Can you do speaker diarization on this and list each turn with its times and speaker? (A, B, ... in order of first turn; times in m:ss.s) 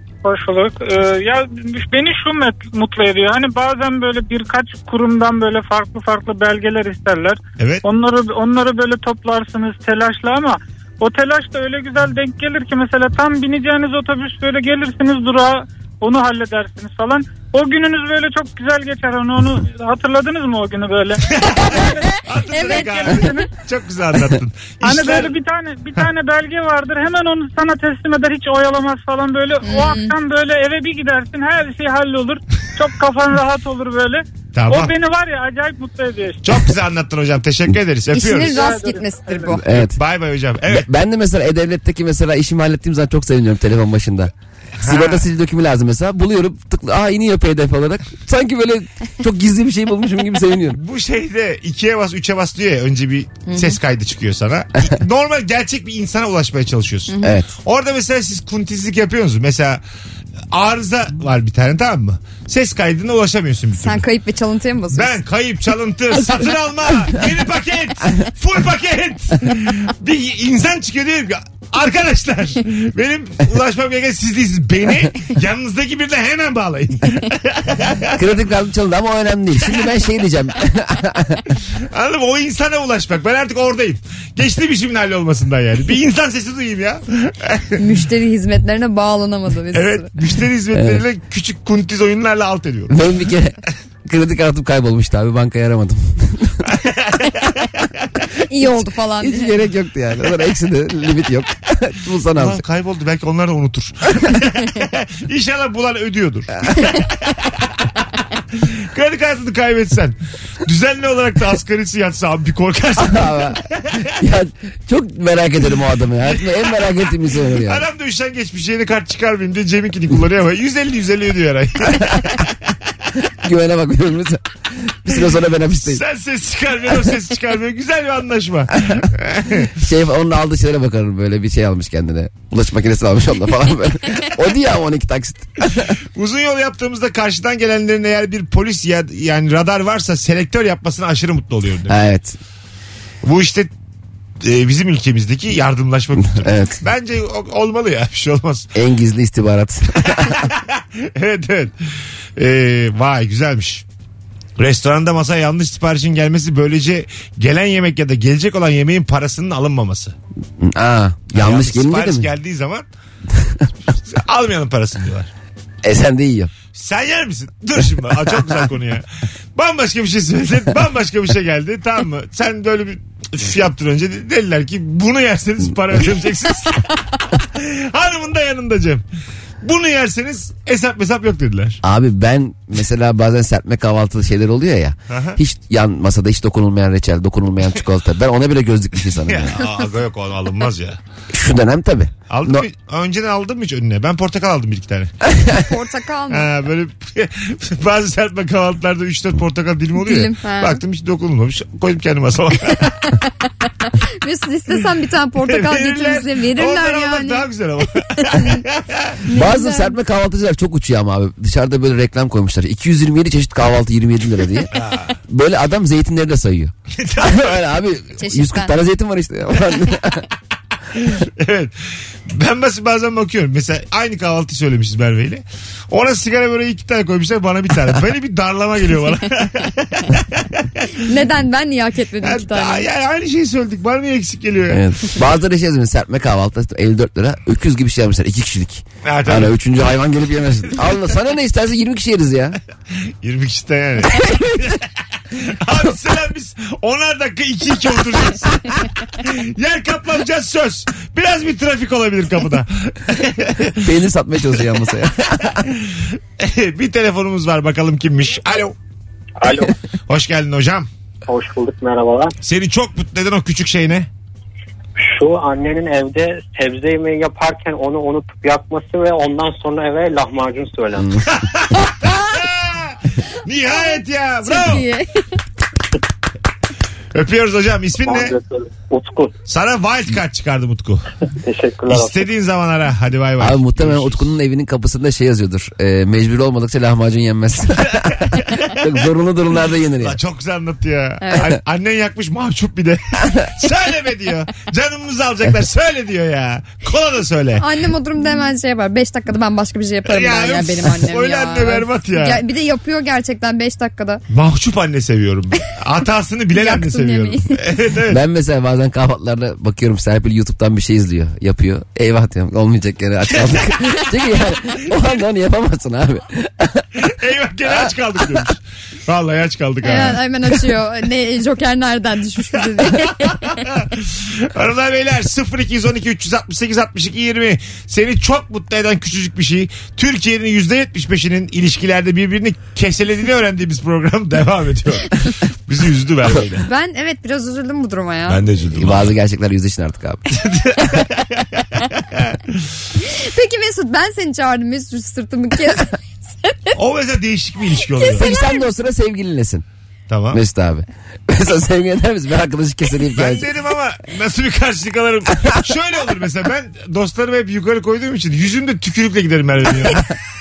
0:00.2-0:23.5 A
0:07.6-0:07.8 B
0:21.3-0:25.3 B
0:24.8-0:36.4 A
0:29.6-0:30.1 C
0:34.5-0:34.9 B
0:36.4-0:38.6 B
0:38.1-0:39.6 C
0:38.4-0:39.5 A
0:39.5-0:40.0 D
0:39.6-0:40.8 B
0:40.6-0:50.8 D
0:44.8-0:45.2 B
0:50.7-0:59.8 B
0:53.5-0:53.8 C
0:57.1-0:57.4 C
0:57.2-0:57.5 D
1:00.5-1:04.0 B
1:03.8-1:05.2 C
1:04.9-1:18.2 B
1:18.1-1:21.4 D
1:21.9-1:27.8 B
1:27.8-1:30.1 C
1:29.7-1:32.9 B
1:30.7-1:31.0 D
1:32.9-1:36.6 D
1:36.7-1:37.9 B
1:38.4-1:39.5 C
1:39.2-1:42.6 D
1:42.3-1:47.7 B
1:48.5-1:54.1 B
1:53.0-1:53.6 D
1:54.2-1:57.8 D
1:56.3-2:02.6 B
2:03.4-2:06.0 D
2:05.8-2:09.7 B
2:09.8-2:15.9 D
2:16.1-2:22.0 B
2:21.9-2:22.4 D
2:23.2-2:23.7 B
2:24.4-2:28.7 B
2:26.3-2:26.8 D
2:28.7-2:30.4 D
2:30.1-2:31.7 B
2:32.4-2:33.8 B
2:34.6-2:40.1 B
2:40.6-2:42.3 D
2:41.3-2:42.8 B
2:44.0-2:45.3 B
2:45.8-2:46.5 D
2:46.7-2:59.0 B
2:59.6-3:01.8 B
3:01.8-3:09.6 D
3:05.1-3:05.4 B
3:09.2-3:11.0 B
3:11.3-3:12.6 D
3:12.3-3:15.1 B
3:15.5-3:16.5 C
3:16.3-3:23.1 B
3:20.0-3:20.8 C
3:24.2-3:27.5 C
3:25.4-3:29.2 B
3:28.3-3:28.6 C
3:29.3-3:29.9 C
3:29.3-3:34.7 D
3:34.7-3:35.1 B
3:35.3-3:40.2 D
3:37.0-3:37.6 B
3:38.2-3:38.7 C
3:41.0-3:41.7 B
3:42.3-3:50.9 B
3:51.0-3:52.8 C
3:52.2-3:54.8 B
3:54.7-4:02.6 D
3:59.0-3:59.5 B
4:03.2-4:13.9 B
4:13.8-4:15.6 D
4:15.7-4:18.8 B
4:19.4-4:19.7 E
4:20.1-4:20.9 B
4:21.3-4:22.3 E
4:22.4-4:24.1 B
4:25.0-4:31.2 E
4:31.3-4:34.9 B
4:33.7-4:35.2 C
4:37.1-4:38.3 B
4:38.0-4:39.3 E
4:39.5-4:41.0 B
4:41.4-4:42.3 E
4:41.9-4:44.2 B
4:43.4-4:50.2 D
4:48.3-4:48.8 B
4:50.0-4:57.6 B
4:51.2-4:51.5 C
4:57.6-5:04.2 C
5:00.0-5:02.4 B
5:04.3-5:08.2 B
5:06.5-5:07.6 C
5:08.1-5:16.9 D
5:13.5-5:14.0 B
5:17.0-5:20.2 B
5:19.8-5:23.5 C
5:23.1-5:36.7 B
5:36.6-5:38.4 C
5:38.3-5:39.1 B
5:38.7-5:40.2 D
5:40.3-5:42.6 B
5:43.0-5:46.8 C
5:46.8-5:48.3 B
5:48.0-5:48.6 C
5:48.1-5:49.6 D
5:50.1-5:50.4 B
5:50.3-5:53.5 D
5:53.1-6:00.1 B